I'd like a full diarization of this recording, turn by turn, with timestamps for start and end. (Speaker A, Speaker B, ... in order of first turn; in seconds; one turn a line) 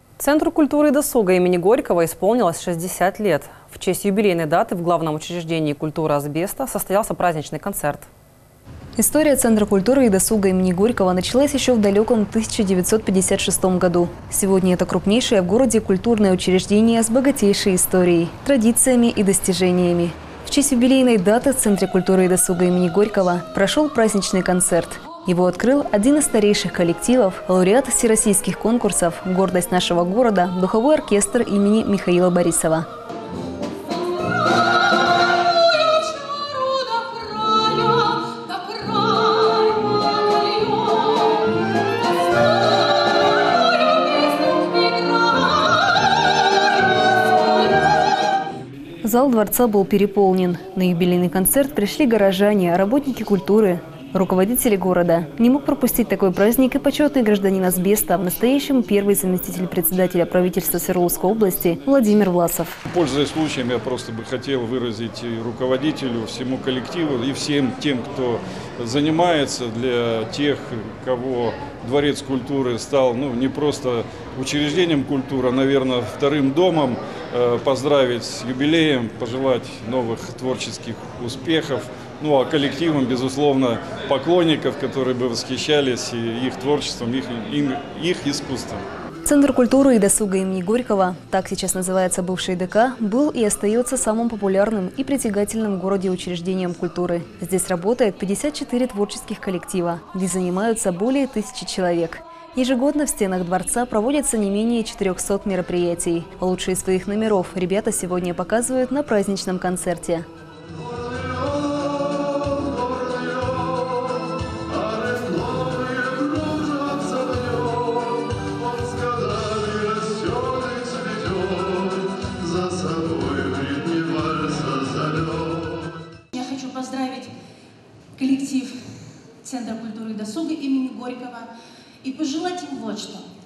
Speaker A: 0.2-8.1
Speaker B: 9.0-32.9
Speaker C: 35.5-41.3
Speaker C: 44.5-45.9
Speaker B: 49.0-62.8
Speaker D: 62.9-88.8
Speaker B: 89.2-110.3
Speaker C: 126.3-127.3
Speaker C: 128.2-128.8
Speaker C: 129.4-131.5
Speaker C: 132.0-133.2